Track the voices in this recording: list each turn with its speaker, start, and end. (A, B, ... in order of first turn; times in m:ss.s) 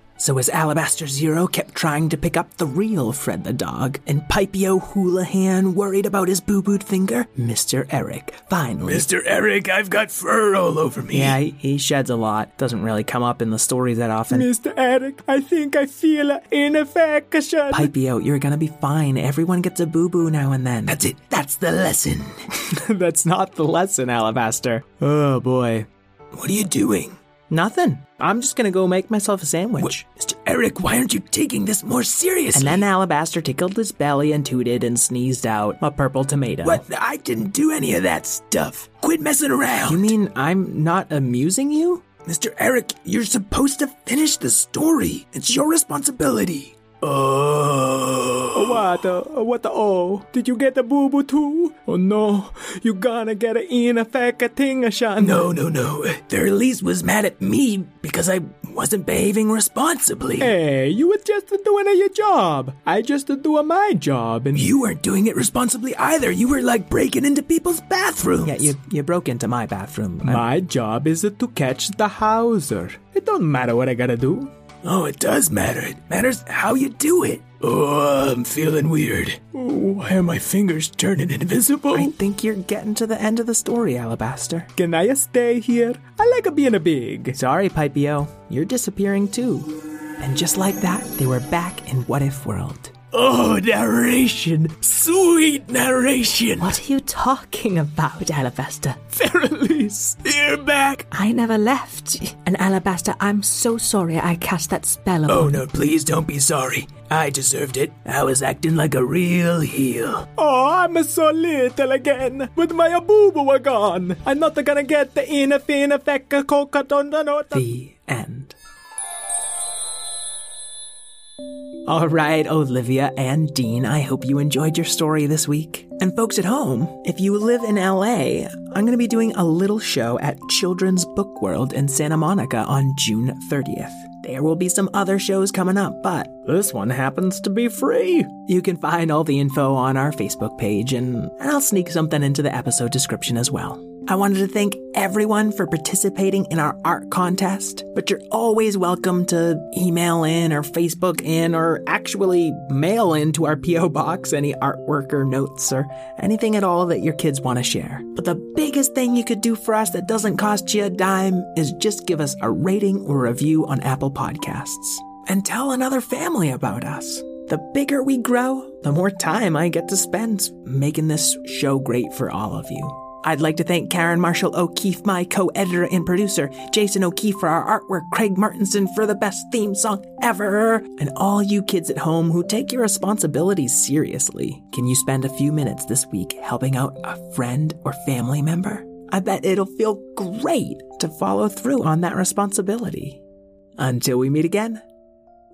0:00.2-0:09.1 A
0:08.8-0:11.4 B
0:11.1-0:14.5 A
0:14.3-0:17.9 C
0:17.7-0:21.0 A
0:20.9-0:22.3 B
0:22.8-0:25.9 A
0:26.3-0:27.2 B
0:27.5-0:30.0 A
0:29.8-0:32.8 B
0:32.5-0:36.8 A
0:36.6-0:40.1 B
0:39.9-0:42.0 A
0:42.2-0:48.8 B
0:48.5-0:55.5 C
0:55.2-1:00.5 B
1:00.4-1:04.7 C
1:04.5-1:08.7 B
1:08.4-1:10.5 A
1:10.2-1:14.5 C
1:14.8-1:22.1 B
1:21.9-1:24.7 A
1:24.8-1:27.4 C
1:27.3-1:32.9 A
1:33.1-1:36.8 B
1:36.6-1:39.0 D
1:39.1-1:40.2 C
1:40.2-1:41.0 B
1:41.1-1:45.6 D
1:45.3-1:50.3 B
1:50.4-1:57.6 C
1:57.5-1:58.6 A
2:01.9-3:13.2 A
3:13.8-3:14.8 A